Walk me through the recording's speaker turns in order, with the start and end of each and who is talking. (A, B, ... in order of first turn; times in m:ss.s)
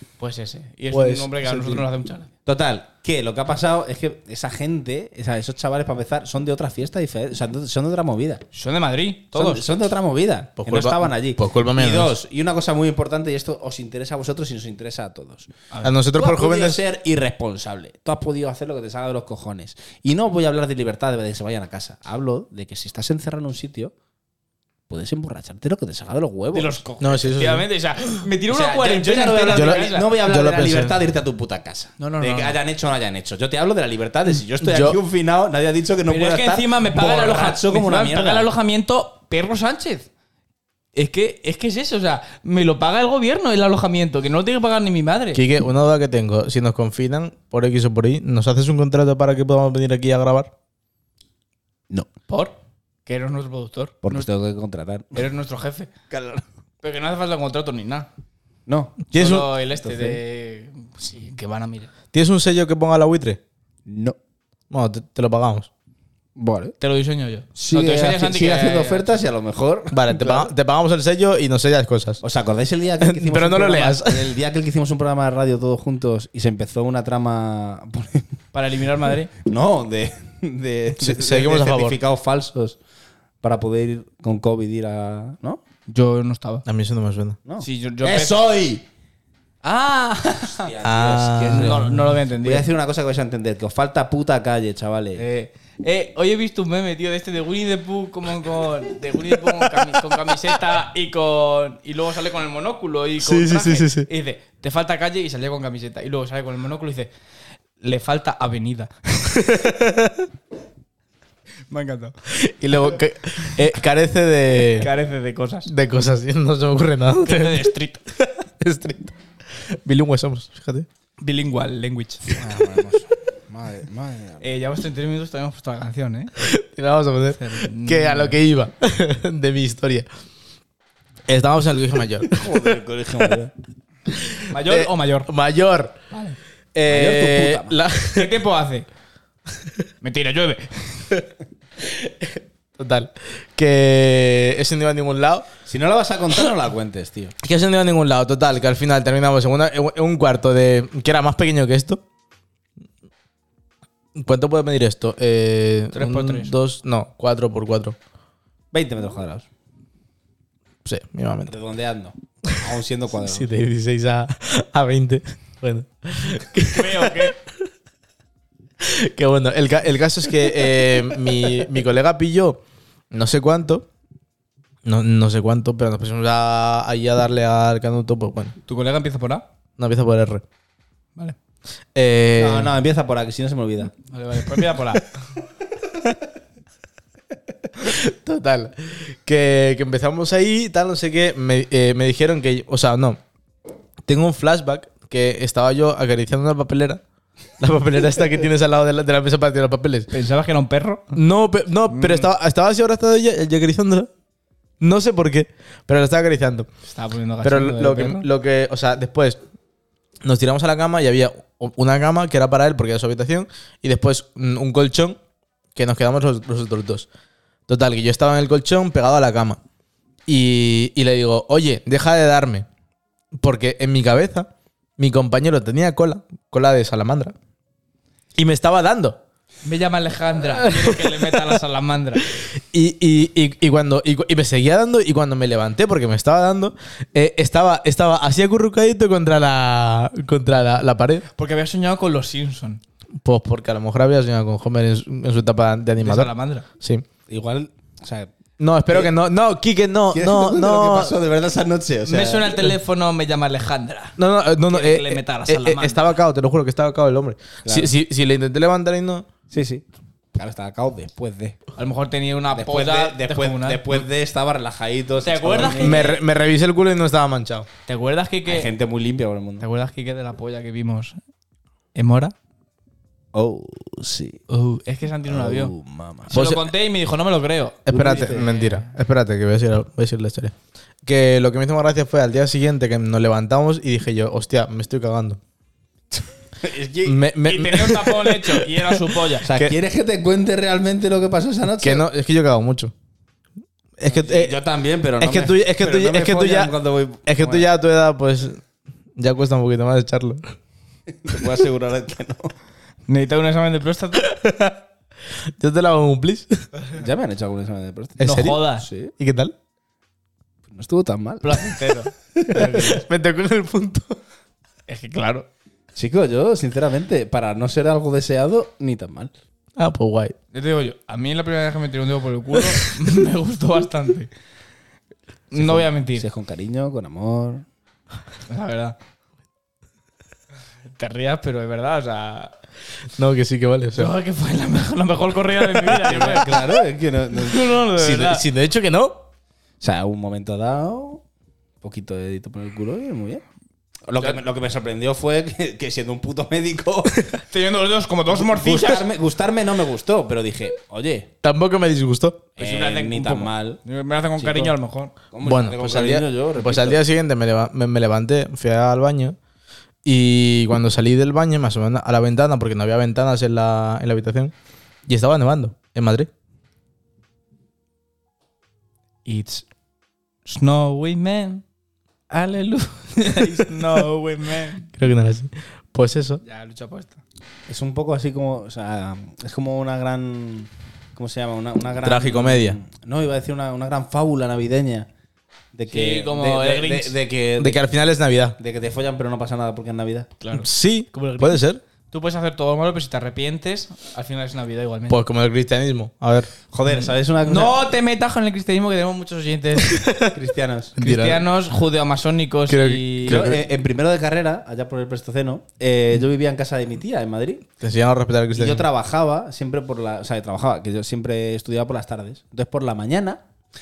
0:00.2-0:02.3 A
0:00.9-0:01.8 B
0:02.4-0:08.4 C
0:08.5-0:09.7 A
0:09.3-0:15.5 C
0:10.6-0:12.1 B
0:15.8-0:16.8 B
0:16.1-0:23.9 C
0:24.9-0:26.7 C
0:26.5-0:30.1 A
0:27.0-0:27.6 B
0:28.5-0:38.5 C
0:29.5-0:31.0 B
0:32.0-0:32.6 A
0:34.6-0:35.0 B
0:36.1-0:40.1 A
0:40.9-0:45.4 A
0:45.3-0:50.5 B
0:52.3-0:52.5 A
0:53.0-0:54.3 A
0:54.0-0:55.2 C
0:55.1-0:55.9 A
0:56.1-0:56.4 C
0:56.8-0:58.1 A
0:58.7-0:59.0 C
0:59.1-0:59.5 B
0:59.1-1:01.9 A
0:59.8-1:00.2 C
1:02.1-1:03.4 B
1:03.8-1:04.2 C
1:04.7-1:05.7 B
1:06.4-1:06.7 C
1:06.8-1:09.2 A
1:07.5-1:10.5 C
1:09.9-1:12.2 B
1:12.2-1:18.3 C
1:13.0-1:14.3 B
1:18.5-1:19.3 A
1:19.4-1:22.8 C
1:21.0-1:22.0 B
1:23.4-1:25.6 C
1:25.9-1:26.6 A
1:26.6-1:27.4 B
1:27.4-1:28.8 C
1:27.6-1:28.4 A
1:29.6-1:30.7 A
1:30.4-1:35.2 C
1:30.8-1:32.0 B
1:31.5-1:32.7 A
1:35.2-1:47.1 A
1:39.6-1:40.0 B
1:43.2-1:44.1 B
1:47.8-1:49.5 A
1:49.3-1:50.3 B
1:51.7-1:52.2 A
1:52.3-1:54.9 B
1:54.7-1:55.7 A
1:55.6-2:00.9 B
1:57.2-1:58.0 A
2:01.2-2:02.3 A
2:02.3-2:04.5 C
2:04.4-2:06.3 A
2:06.4-2:10.0 B
2:07.4-2:08.4 A
2:11.3-2:12.8 B
2:12.3-2:13.5 C
2:14.1-2:16.0 B
2:14.5-2:15.3 A
2:16.1-2:16.4 A
2:16.7-2:18.4 B
2:16.9-2:17.8 C
2:18.1-2:18.8 A
2:20.0-2:21.2 A
2:21.8-2:25.5 B
2:25.6-2:27.4 C
2:27.4-2:32.0 B
2:34.2-2:38.0 B
2:35.9-2:36.5 A
2:38.7-2:39.4 C
2:40.8-2:41.5 B
2:41.5-2:43.5 C
2:43.2-2:47.4 B
2:46.7-2:47.3 A
2:48.8-2:53.9 B
2:54.8-2:58.6 B
2:58.7-2:59.4 A
2:59.8-3:00.4 B
3:01.9-3:02.7 B
3:02.4-3:03.9 C
3:04.1-3:05.0 A
3:07.8-3:13.2 B
3:14.0-3:17.0 B
3:17.6-3:20.1 B
3:20.1-3:21.2 A
3:21.1-3:24.1 B
3:21.9-3:22.3 A
3:24.8-3:26.7 B
3:26.9-3:28.3 A
3:27.4-3:29.4 B
3:30.2-3:35.2 B
3:35.7-3:37.1 B
3:37.7-3:39.6 B
3:40.3-3:42.7 B
3:43.3-3:47.3 B
3:48.4-3:49.2 B
3:49.6-3:52.3 A
3:50.5-3:51.6 B
3:52.3-4:01.2 B
4:01.4-4:02.8 A
4:03.2-4:07.0 B
4:06.0-4:06.6 A
4:07.3-4:08.3 C
4:08.6-4:11.2 B
4:10.1-4:12.6 C
4:12.0-4:16.0 A
4:14.2-4:19.3 B
4:17.6-4:17.9 C
4:19.5-4:21.6 C
4:21.8-4:24.0 A
4:22.5-4:26.1 C
4:25.2-4:26.2 A
4:25.7-4:27.7 B
4:27.9-4:28.7 A
4:28.4-4:29.6 C
4:29.6-4:31.2 A
4:31.9-4:32.3 A
4:33.3-4:34.4 C
4:34.5-4:35.7 A
4:35.3-4:36.3 C
4:36.3-4:38.9 A
4:36.3-4:36.7 B
4:37.9-4:40.5 B
4:37.9-4:38.5 C
4:41.0-4:45.4 B
4:46.6-4:47.2 C
4:47.0-4:49.0 B
4:47.4-4:49.5 A
4:49.4-4:52.0 C
4:51.8-4:52.9 B
4:54.0-4:54.6 B
4:54.0-4:57.7 C
4:55.2-4:56.7 B
4:57.2-4:58.6 B
4:59.2-5:00.5 B
5:01.2-5:02.5 C
5:03.1-5:04.3 A
5:04.2-5:04.8 B
5:05.6-5:06.6 B
5:06.9-5:09.1 C
5:08.2-5:08.6 B
5:08.2-5:08.8 A
5:09.2-5:09.5 B
5:10.7-5:12.9 C
5:11.4-5:13.0 A
5:12.5-5:14.2 B
5:14.9-5:15.5 A
5:16.0-5:19.3 C
5:19.8-5:20.4 B
5:20.5-5:24.3 A
5:25.5-5:26.2 A
5:25.5-5:27.6 C
5:28.5-5:29.0 A
5:30.9-5:32.5 A
5:33.2-5:34.1 B
5:33.9-5:36.6 A
5:35.7-5:36.3 B
5:35.9-5:37.8 C
5:37.4-5:38.4 A
5:37.9-5:39.2 B
5:39.8-5:41.2 C
5:41.8-5:43.4 C
5:44.1-5:47.2 C
5:47.5-5:49.0 A
5:48.3-5:51.3 C
5:51.4-5:52.5 B
5:52.6-5:53.8 C
5:52.6-5:55.1 A
5:54.4-5:54.7 C
5:55.3-5:57.0 C
5:55.4-5:59.4 B
6:00.0-6:04.5 B
6:05.1-6:06.3 B
6:09.2-6:09.6 A
6:10.4-6:11.6 A
6:12.3-6:14.9 A
6:14.9-6:16.4 B
6:16.4-6:17.2 A
6:17.7-6:25.1 C
6:22.0-6:22.8 B
6:25.7-6:27.8 C
6:25.9-6:27.1 A
6:27.6-6:28.6 B
6:28.6-6:30.3 C
6:30.4-6:35.2 A
6:30.5-6:31.8 B
6:35.1-6:36.5 B
6:36.7-6:37.8 C
6:37.4-6:40.1 A
6:39.8-6:40.3 B
6:40.3-6:41.0 C
6:41.0-6:41.4 B
6:41.0-6:43.6 A
6:42.7-6:43.6 B
6:43.2-6:47.6 C
6:47.8-6:48.8 B
6:48.5-6:53.4 C